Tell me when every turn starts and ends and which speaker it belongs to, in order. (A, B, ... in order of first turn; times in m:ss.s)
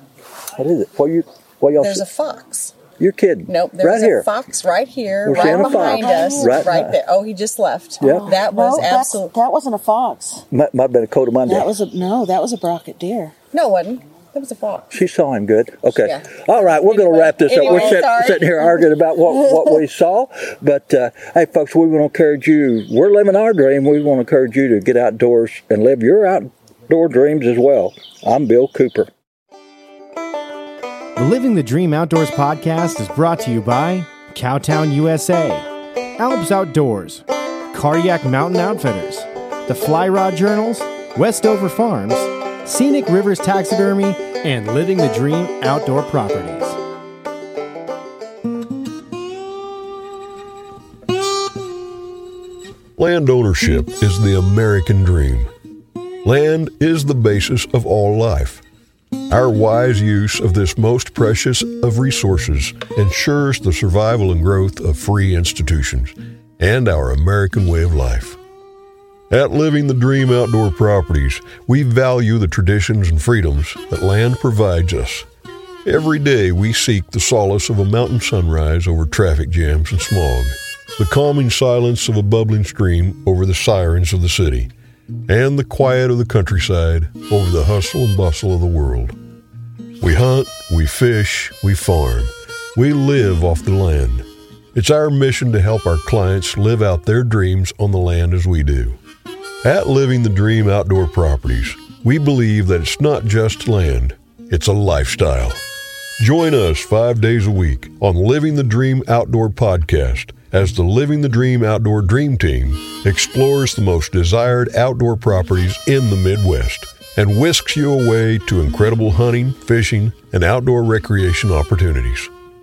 0:00.6-0:02.0 A
0:01.8-0:02.8 B
0:03.0-0:04.3 A
0:03.5-0:09.3 B
0:05.2-0:06.9 A
0:05.3-0:06.6 C
0:08.0-0:08.3 A
0:08.0-0:10.4 C
0:10.5-0:11.7 A
0:11.5-0:13.3 C
0:13.5-0:14.9 B
0:14.9-0:29.1 A
0:16.0-0:18.7 B
0:31.2-0:46.8 D
0:53.0-0:55.5 E
0:56.2-0:58.6 E
0:59.3-1:08.4 E
1:09.3-1:15.3 E
1:15.8-1:24.7 E
1:25.3-1:29.2 E
1:30.0-1:39.0 E
1:39.6-1:45.6 E
1:46.2-2:02.3 E